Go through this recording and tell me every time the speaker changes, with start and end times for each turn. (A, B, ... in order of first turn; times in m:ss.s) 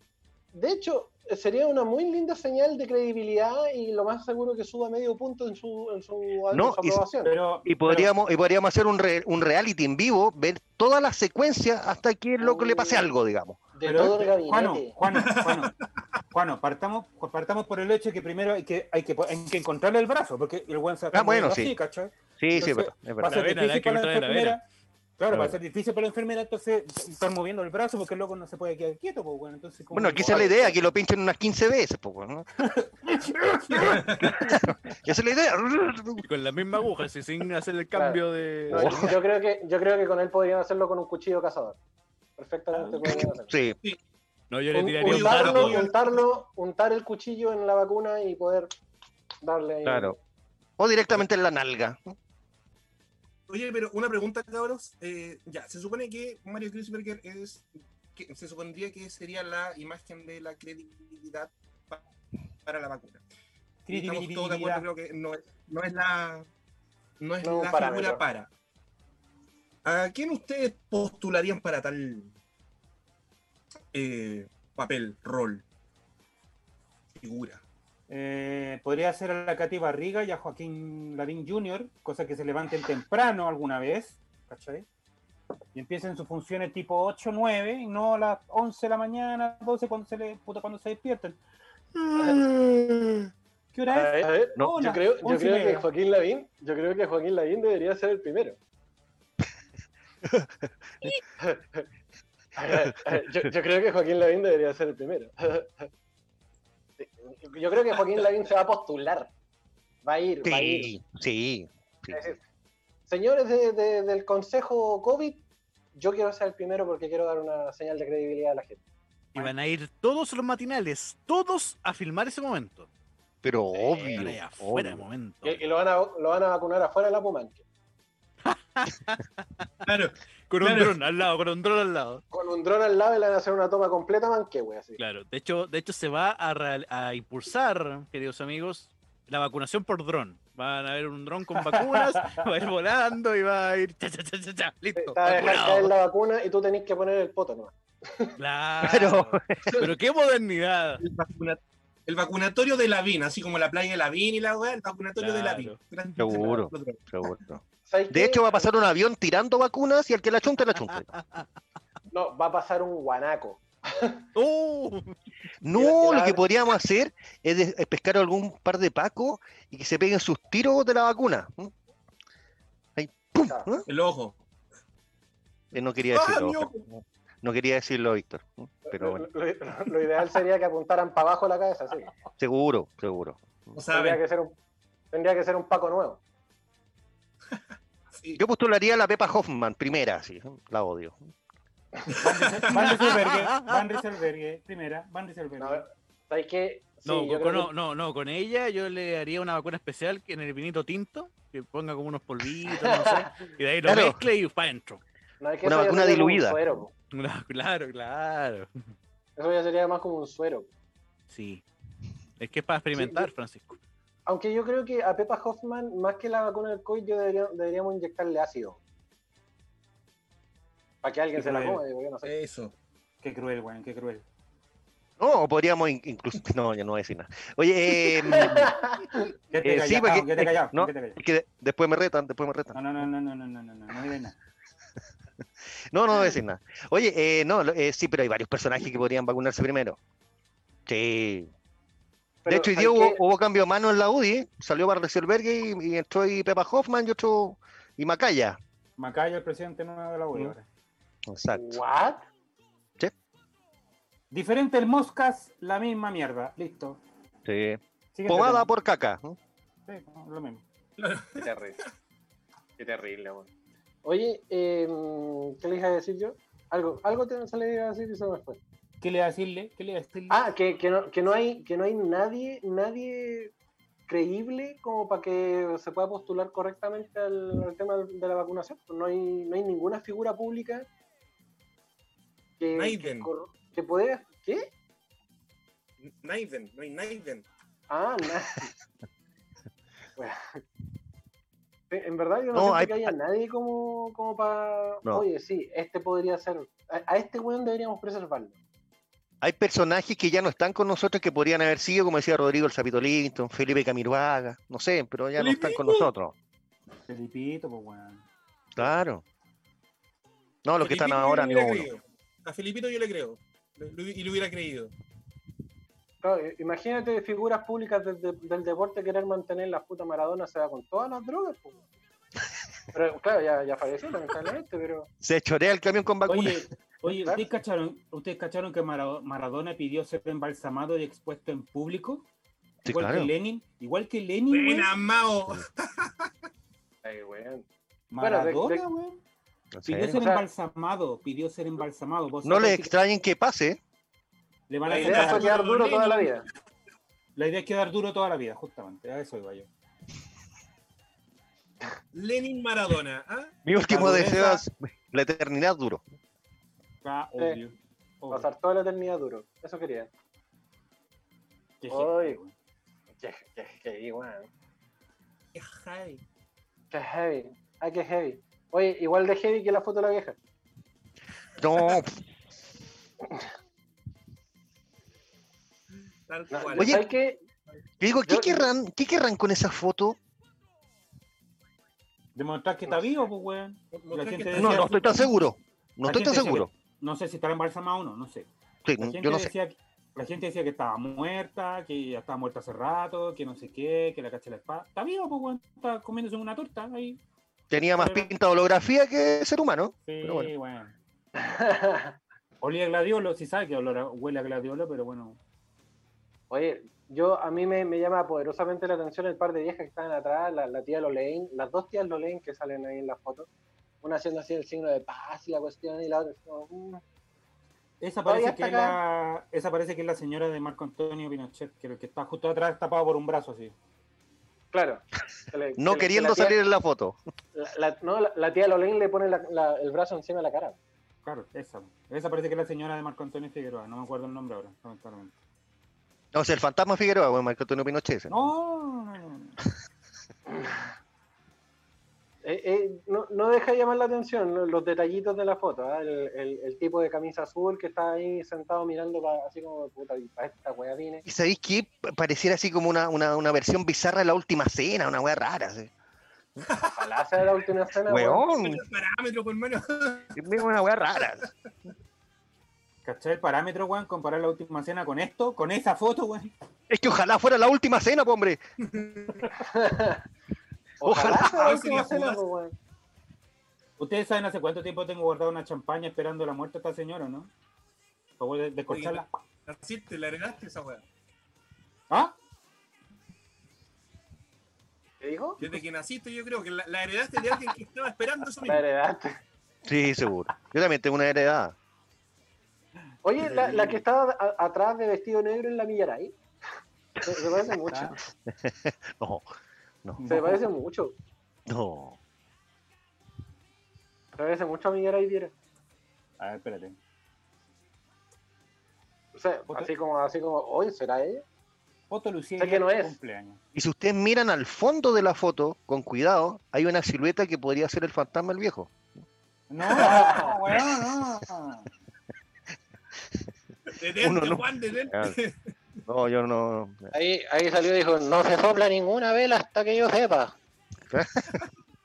0:00.5-0:07.3 A
0:06.5-0:07.0 B
0:07.2-0:08.1 C
0:07.6-0:13.6 B
0:12.4-0:13.1 A
0:13.7-0:15.0 A
0:13.8-0:15.7 C
0:15.1-0:15.7 D
0:16.3-0:24.6 C
0:21.1-0:21.7 B
0:22.4-0:23.4 B
0:23.2-0:24.6 E
0:25.2-0:30.7 C
0:25.3-0:25.6 B
0:29.9-0:32.5 B
0:30.3-0:30.7 A
0:32.6-0:34.0 C
0:33.7-0:34.4 D
0:33.8-0:36.2 B
0:36.2-0:39.2 E
0:37.9-0:41.8 A
0:38.7-0:39.2 B
0:42.4-0:43.5 A
0:43.0-0:43.8 B
0:44.5-0:45.9 E
0:44.7-0:48.7 A
0:45.0-0:46.1 D
0:49.4-0:50.2 A
0:49.8-0:50.2 B
0:50.8-0:52.1 B
0:53.5-1:02.0 D
1:02.6-1:03.2 D
1:03.8-1:04.9 C
1:03.9-1:06.5 D
1:07.2-1:08.5 D
1:07.4-1:08.2 A
1:09.8-1:12.3 D
1:13.9-1:15.6 D
1:17.2-1:17.6 D
1:18.1-1:24.8 C
1:25.7-1:31.4 C
1:32.0-1:33.2 C
1:33.7-1:35.9 C
1:33.9-1:38.6 A
1:41.4-1:41.8 A
1:42.6-1:45.9 A
1:47.0-1:49.3 A
1:50.0-1:50.9 A
1:50.4-1:52.3 B
1:52.1-1:52.4 A
1:53.1-1:55.4 A
1:55.9-1:58.8 A
1:59.3-2:02.9 E
2:03.4-2:05.0 B
2:03.7-2:04.2 A
2:04.1-2:05.6 E
2:05.4-2:07.6 A
2:08.5-2:09.2 E
2:09.8-2:10.9 D
2:10.5-2:12.2 E
2:12.3-2:15.0 A
2:15.0-2:25.9 E
2:21.6-2:22.4 C
2:25.0-2:28.3 A
2:28.4-2:31.0 E
2:28.8-2:29.8 B
2:31.0-2:37.0 D
2:35.2-2:35.8 E
2:36.2-2:41.1 B
2:37.9-2:38.7 A
2:42.1-2:44.2 A
2:44.4-2:45.1 E
2:45.6-2:51.7 B
2:45.7-2:46.4 A
2:53.0-2:53.8 B
2:53.9-2:54.4 D
2:55.7-2:59.2 B
2:56.1-2:56.8 D
2:58.8-3:02.1 A
3:02.4-3:03.8 B
3:03.7-3:04.2 D
3:03.9-3:04.5 A
3:05.1-3:06.2 A
3:08.4-3:11.3 B
3:12.2-3:15.8 C
3:12.2-3:12.7 D
3:12.9-3:13.8 E
3:15.6-3:17.7 A
3:17.0-3:25.0 E
3:22.8-3:23.2 A
3:23.8-3:24.2 B
3:25.4-3:26.9 A
3:25.6-3:26.6 B
3:27.1-3:28.7 E
3:29.4-3:30.7 A
3:31.3-3:31.6 E
3:32.4-3:33.8 E
3:32.9-3:33.3 A
3:34.3-3:38.8 A
3:41.0-3:42.3 A
3:41.4-3:41.8 C
3:42.2-3:42.7 D
3:43.2-3:44.2 C
3:45.2-3:48.8 B
3:48.1-3:49.3 A
3:49.5-3:51.2 C
3:49.6-3:52.8 B
3:52.7-3:54.4 C
3:55.9-4:00.0 B
4:00.9-4:01.5 B
4:02.4-4:03.2 A
4:02.5-4:08.6 B
4:09.0-4:10.6 C
4:11.3-4:11.8 B
4:11.5-4:12.2 A
4:14.3-4:17.0 C
4:17.4-4:19.4 B
4:18.1-4:18.7 C
4:19.8-4:20.6 C
4:21.0-4:21.4 D
4:21.4-4:21.8 A
4:22.8-4:23.5 A
4:24.0-4:28.6 A
4:29.0-4:30.4 C
4:30.3-4:33.5 A
4:34.1-4:40.9 A
4:42.6-4:44.7 A
4:42.7-4:43.3 D
4:46.0-4:47.4 D
4:47.9-4:48.7 A
4:50.2-4:50.6 A
4:51.9-4:58.6 A
4:52.5-4:53.1 B
4:59.4-5:06.3 B
5:05.4-5:06.1 D
5:07.1-5:08.2 C
5:08.8-5:09.2 B
5:10.6-5:11.9 B
5:10.8-5:14.9 D
5:16.2-5:21.8 A
5:22.9-5:25.1 A
5:25.2-5:26.7 B
5:26.3-5:32.2 C
5:32.8-5:33.3 B
5:32.8-5:34.9 C
5:34.5-5:36.3 D
5:37.0-5:37.6 A
5:38.1-5:39.2 C
5:38.2-5:38.8 A
5:39.7-5:40.2 B
5:39.8-5:42.9 C
5:40.1-5:40.4 A
5:42.4-5:43.8 B
5:44.7-5:45.6 C
5:44.8-5:46.4 D
5:44.9-5:46.4 A
5:47.4-5:49.7 C
5:52.1-5:53.5 D
5:53.6-5:56.0 B
5:53.9-5:54.6 C
5:57.0-5:58.5 C
5:58.3-6:00.1 A
6:01.8-6:02.5 C
6:01.9-6:02.4 A
6:03.2-6:04.5 A
6:05.5-6:06.2 D
6:06.9-6:10.4 A
6:11.6-6:12.2 B
6:16.3-6:17.0 D
6:16.5-6:17.4 A
6:16.8-6:17.0 B
6:18.0-6:20.2 B
6:18.2-6:18.7 A
6:22.3-6:25.0 C
6:23.9-6:25.3 D
6:24.5-6:26.7 B
6:26.0-6:28.5 C
6:28.8-6:29.5 B
6:29.0-6:37.2 C
6:37.7-6:40.5 B
6:37.9-6:38.3 C
6:40.0-6:40.9 C
6:41.4-6:42.2 A
6:42.6-6:45.4 C
6:46.5-6:53.5 A
6:54.0-6:57.0 A
6:58.0-7:03.7 C
6:58.2-6:59.0 A
7:04.7-7:06.6 A
7:05.8-7:07.2 B
7:07.5-7:10.8 A
7:11.2-7:15.3 C
7:16.3-7:18.3 B
7:18.3-7:19.6 C
7:22.4-7:31.2 A
7:31.2-7:35.9 B
7:36.6-7:37.1 D
7:36.8-7:38.4 A
7:38.1-7:38.8 B
7:38.6-7:40.6 D
7:40.3-7:41.4 B
7:43.0-7:46.5 C
7:46.9-7:48.6 B
7:48.8-7:49.6 D
7:49.6-7:50.2 A
7:51.0-7:52.7 A
7:51.0-7:52.0 B
7:51.3-7:52.4 D
7:54.0-7:57.5 C
7:58.4-7:59.3 C
7:58.9-8:01.0 D
8:02.1-8:02.3 C
8:05.2-8:05.6 A
8:05.6-8:08.8 D
8:08.6-8:09.4 A
8:09.8-8:11.7 B
8:13.2-8:16.3 A
8:13.4-8:14.0 C
8:17.2-8:18.2 A
8:17.9-8:18.2 C
8:18.5-8:19.4 B
8:20.2-8:20.6 C
8:20.2-8:21.1 A
8:21.7-8:22.2 B
8:24.4-8:25.5 A
8:26.4-8:27.0 C
8:29.3-8:31.4 A
8:32.1-8:33.6 C
8:32.6-8:33.2 A
8:33.7-8:38.9 B
8:39.7-8:41.9 C
8:39.9-8:40.6 A
8:43.9-8:45.7 D
8:44.2-8:45.4 B
8:46.0-8:47.1 B
8:47.1-8:50.5 A
8:51.1-8:51.6 B